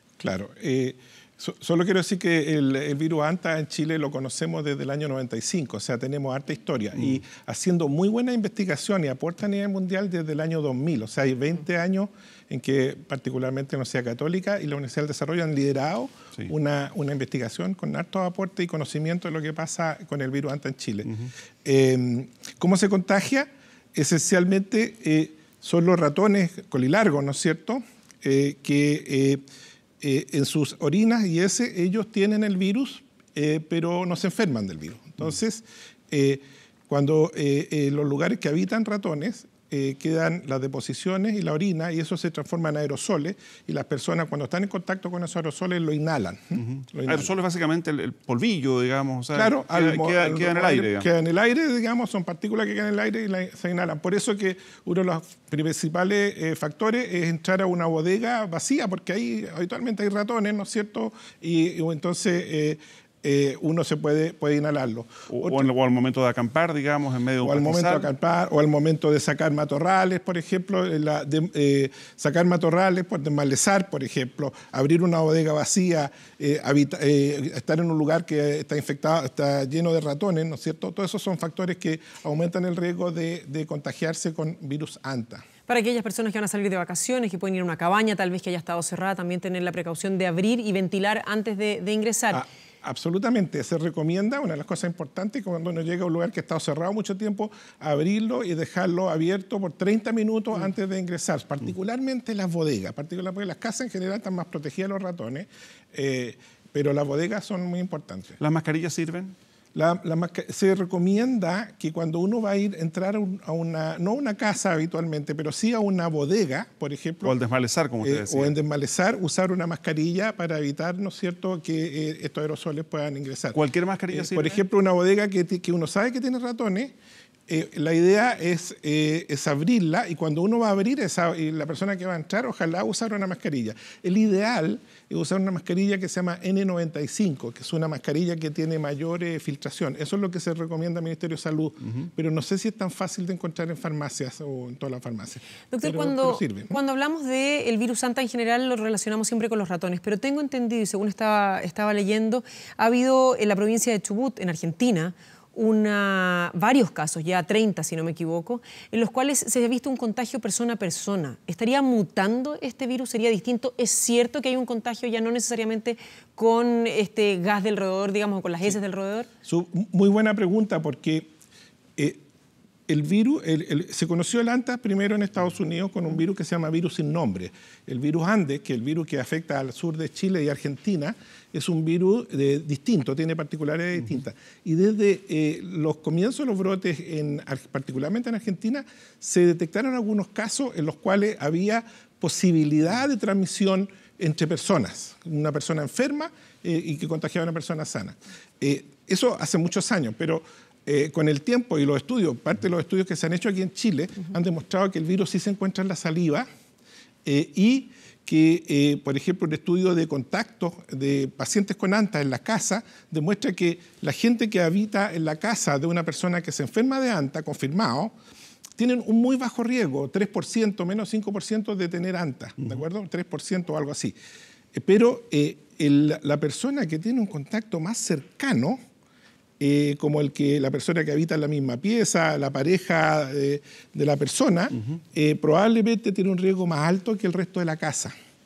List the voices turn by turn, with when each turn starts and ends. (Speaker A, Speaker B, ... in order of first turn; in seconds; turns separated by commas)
Speaker A: 0.2-29.4, Speaker A: 30.0-47.3, Speaker B: 46.6-51.1, Speaker A: 49.3-65.7, Speaker B: 65.3-68.1, Speaker A: 67.4-85.4, Speaker C: 85.7-92.4, Speaker A: 92.3-108.4, Speaker B: 108.4-109.3, Speaker A: 109.7-117.3, Speaker B: 117.2-118.5, Speaker A: 118.0-123.6, Speaker B: 123.5-124.6, Speaker A: 124.1-126.9, Speaker A: 127.5-146.8, Speaker C: 145.7-169.3, Speaker A: 169.4-171.3, Speaker A: 172.0-172.2, Speaker A: 172.9-206.5, Speaker A: 207.2-218.1, Speaker A: 218.8-224.2, Speaker A: 224.7-228.8, Speaker A: 229.6-238.1